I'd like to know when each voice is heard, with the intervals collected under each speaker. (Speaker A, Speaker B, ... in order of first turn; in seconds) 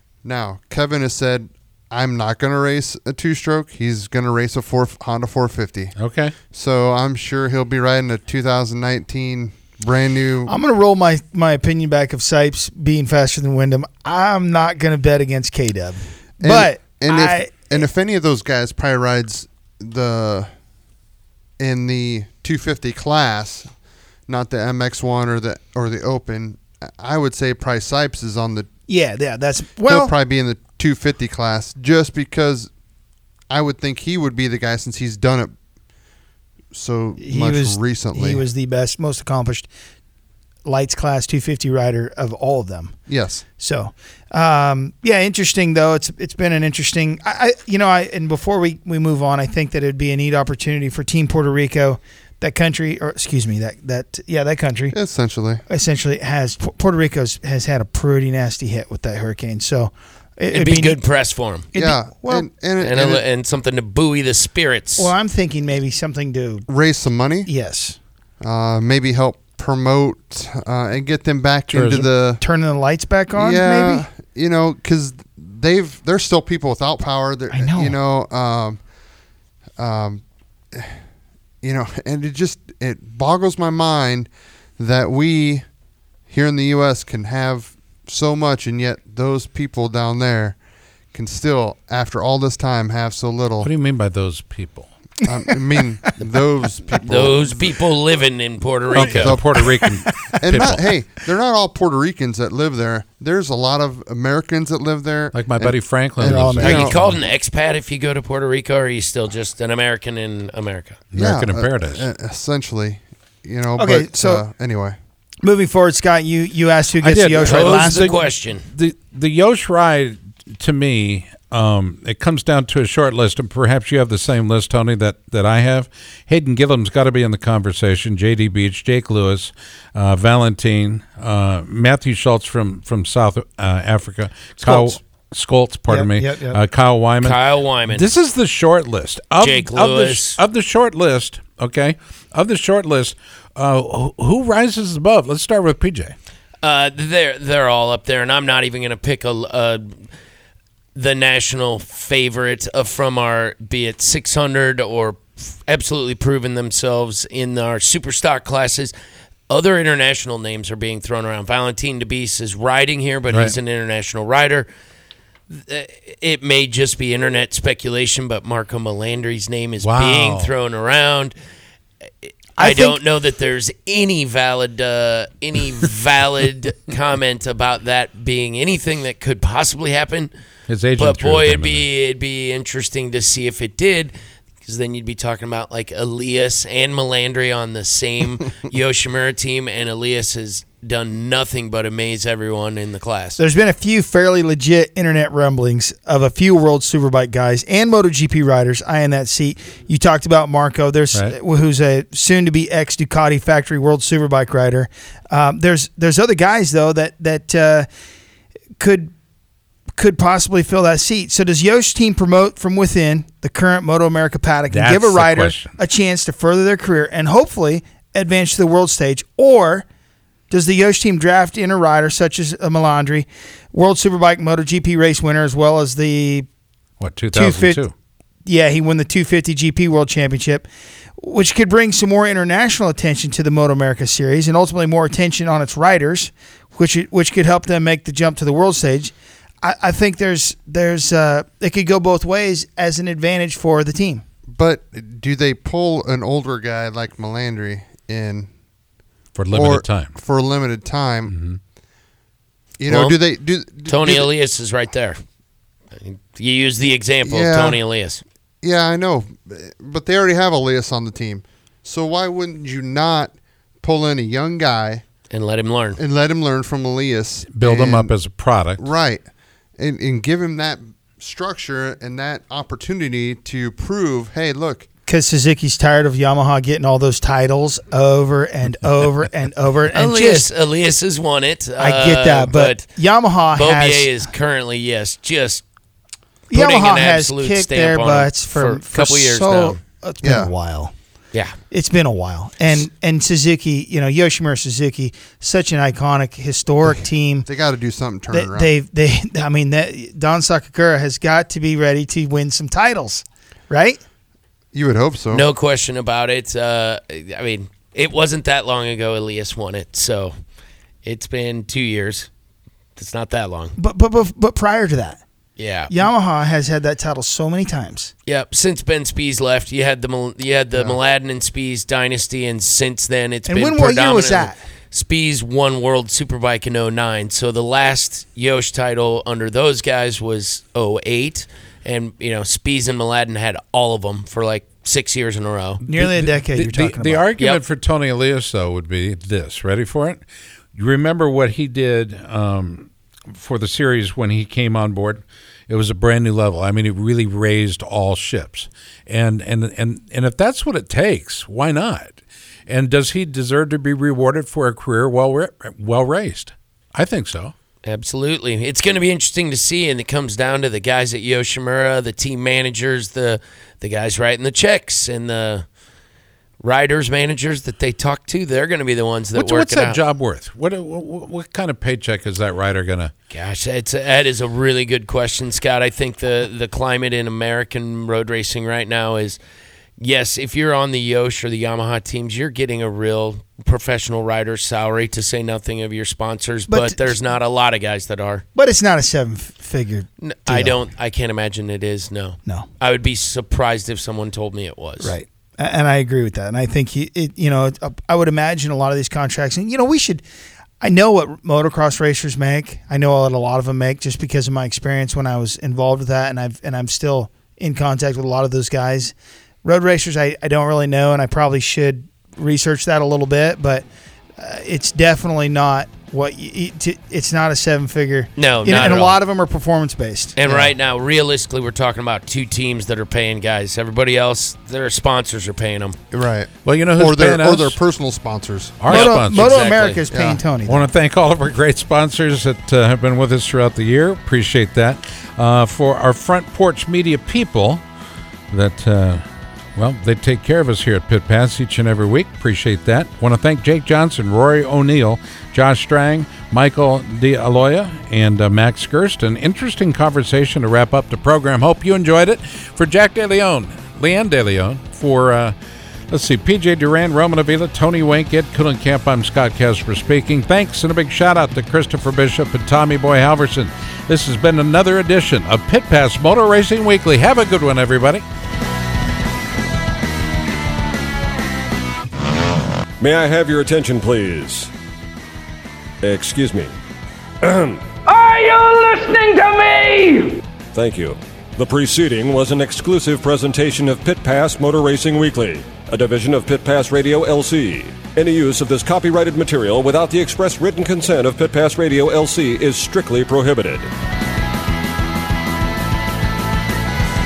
Speaker A: 0.2-6.0, 6.5-10.5, 16.4-20.5, 21.6-23.7, 24.3-28.7, 29.9-32.7, 33.5-35.5, 36.7-38.5, 43.1-43.4, 54.9-55.6, 61.8-63.2, 66.7-67.5, 68.4-72.4, 73.4-78.8, 79.8-81.0, 81.6-85.7, 86.3-90.6, 91.1-93.7, 95.3-97.8, 99.0-99.4, 100.4-107.0, 111.2-115.0, 244.5-248.5, 249.5-251.3, 252.8-254.3, 257.2-257.8, 258.6-265.0, 266.0-268.1, 268.8-269.2, 269.8-274.9, 290.2-290.5, 297.4-298.7, 304.7-305.4, 426.1-428.8, 430.1-430.4
Speaker B: 6.0-6.3, 71.7-72.1, 93.6-94.9, 99.0-100.9, 105.3-107.2, 111.1-112.1, 117.0-146.2, 163.3-163.6, 169.8-170.5, 180.7-181.9, 214.7-215.8, 227.0-227.9, 249.4-250.1, 251.3-251.6, 267.5-268.8, 335.8-357.5, 369.3-373.1, 426.6-427.8, 428.8-429.6, 430.6-437.8, 438.5-439.2, 439.8-455.6, 456.1-468.2
Speaker C: 10.5-17.9, 28.9-30.1, 37.2-39.7, 40.6-43.0, 43.6-55.0, 55.7-61.0, 61.7-62.5, 65.0-66.7, 67.5-68.0, 72.4-74.1, 77.5-78.0, 99.5-100.1, 106.2-106.9, 113.8-114.4, 115.4-118.2, 134.6-135.0, 135.9-136.6, 172.6-173.0, 193.4-207.9, 208.8-209.1, 210.0-219.9, 220.5-226.5, 227.3-227.9, 228.4-230.7, 231.2-244.2, 275.1-280.5, 281.8-284.2, 286.5-290.9, 291.7-297.5, 298.3-304.0, 313.8-315.2, 315.9-318.1, 323.5-324.6, 335.9-337.3, 386.7-387.2, 388.6-390.8, 395.0-400.2, 400.8-413.9, 414.4-420.7, 428.9-430.9
Speaker D: 60.5-61.7, 62.8-65.1, 96.9-99.4, 106.6-111.0, 117.4-118.6, 137.2-138.1, 139.4-140.4, 146.6-150.0, 150.9-158.9, 159.5-164.7, 165.5-171.4, 172.2-180.3, 181.0-193.4, 252.9-253.2, 253.9-255.2, 255.9-258.2, 265.3-266.0, 279.9-282.9, 283.5-285.6, 286.5-289.8, 305.3-310.3, 311.0-312.3, 313.0-313.8, 315.6-316.1, 318.3-335.8, 337.4-337.6, 357.8-365.7, 366.6-370.0, 373.3-379.4, 380.0-388.4, 390.2-395.2, 418.4-419.2, 420.4-426.0, 428.9-430.0
Speaker E: 473.0-474.7, 476.0-476.7, 477.4-477.8, 480.7-493.9
Speaker F: 478.1-480.4